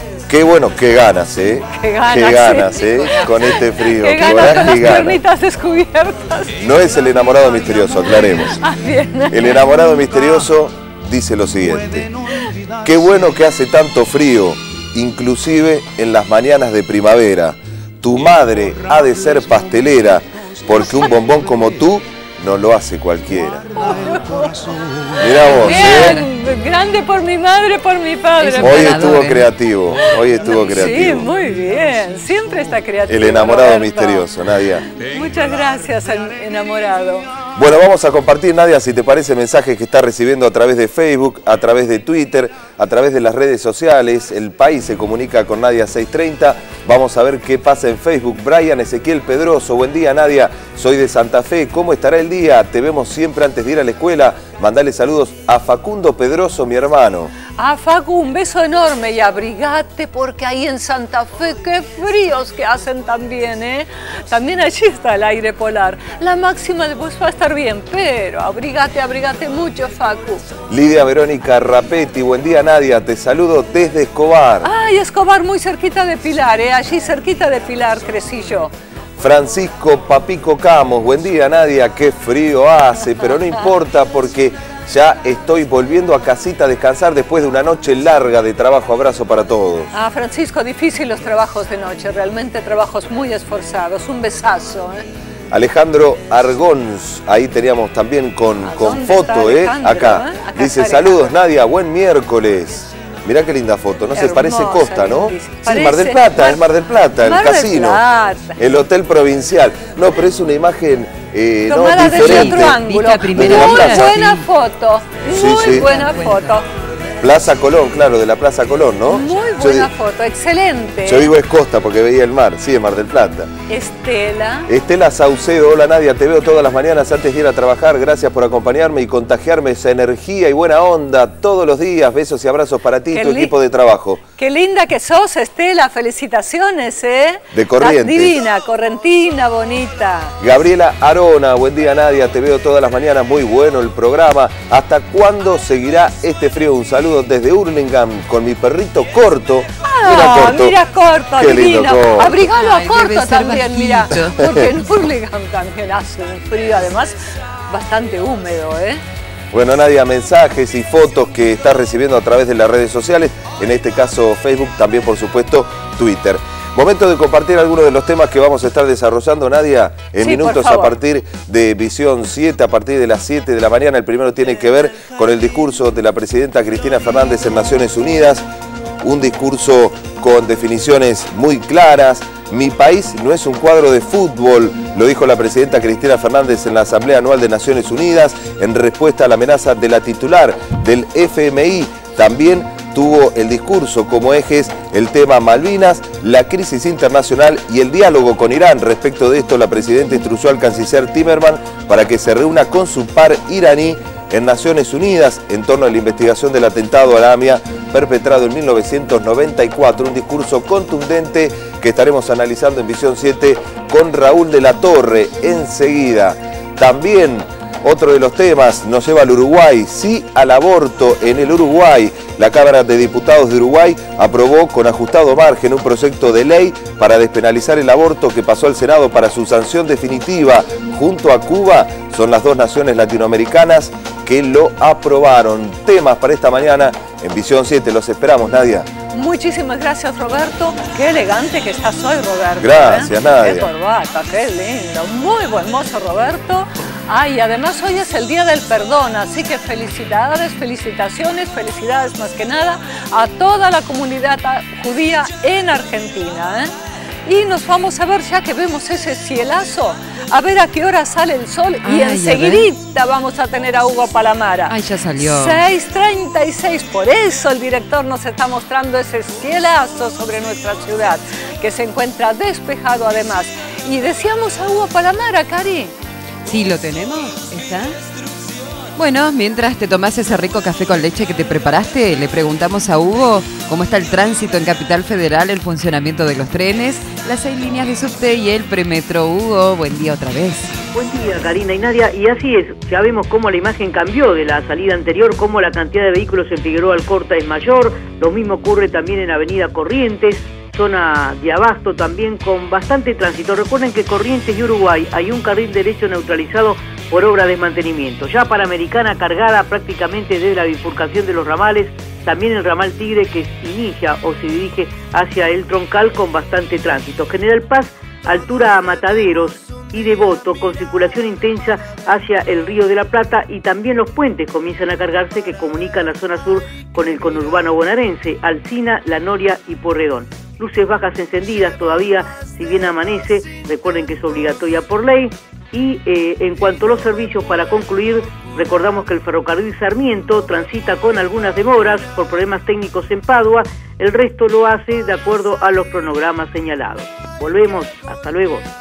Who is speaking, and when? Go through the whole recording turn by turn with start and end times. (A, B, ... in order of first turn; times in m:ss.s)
0:00.3-0:05.2 A
0:01.7-0:06.6 B
0:06.6-0:08.6 A
0:08.2-0:09.7 B
0:09.3-0:12.2 A
0:12.8-0:23.9 A
0:23.7-0:29.2 B
0:25.2-0:26.2 A
0:25.6-0:26.3 C
0:28.4-0:29.5 C
0:28.6-0:31.3 A
0:30.0-0:34.3 B
0:33.1-0:34.8 A
0:34.8-0:37.3 B
0:37.6-0:57.3 A
0:57.6-1:10.4 B
1:10.7-1:14.7 A
1:14.6-1:18.7 B
1:19.2-1:29.9 A
1:29.9-1:35.0 B
1:35.5-1:48.0 A
1:38.6-1:41.4 B
1:44.1-1:46.6 B
1:47.2-1:48.6 B
1:48.6-1:54.2 A
1:51.7-1:56.7 B
1:52.1-1:54.4 C
1:55.3-1:55.9 A
1:55.9-1:56.5 C
1:57.2-1:59.9 A
1:59.1-2:01.3 B
2:01.0-2:03.5 A
2:03.7-2:04.7 B
2:04.7-2:14.2 A
2:13.1-2:13.6 B
2:14.4-2:20.4 B
2:17.5-2:18.4 A
2:20.4-2:30.8 A
2:29.8-2:37.2 B
2:31.4-2:32.4 A
2:32.4-2:34.5 C
2:37.7-2:39.0 B
2:39.5-2:58.4 A
2:50.2-2:51.0 B
2:59.0-3:58.9 A
3:59.1-4:16.7 B
4:02.6-4:03.7 A
4:17.3-4:35.9 B
4:21.8-4:22.7 C
4:24.7-4:25.6 C
4:36.5-4:38.0 C
4:39.0-4:50.7 C
4:50.9-5:48.6 D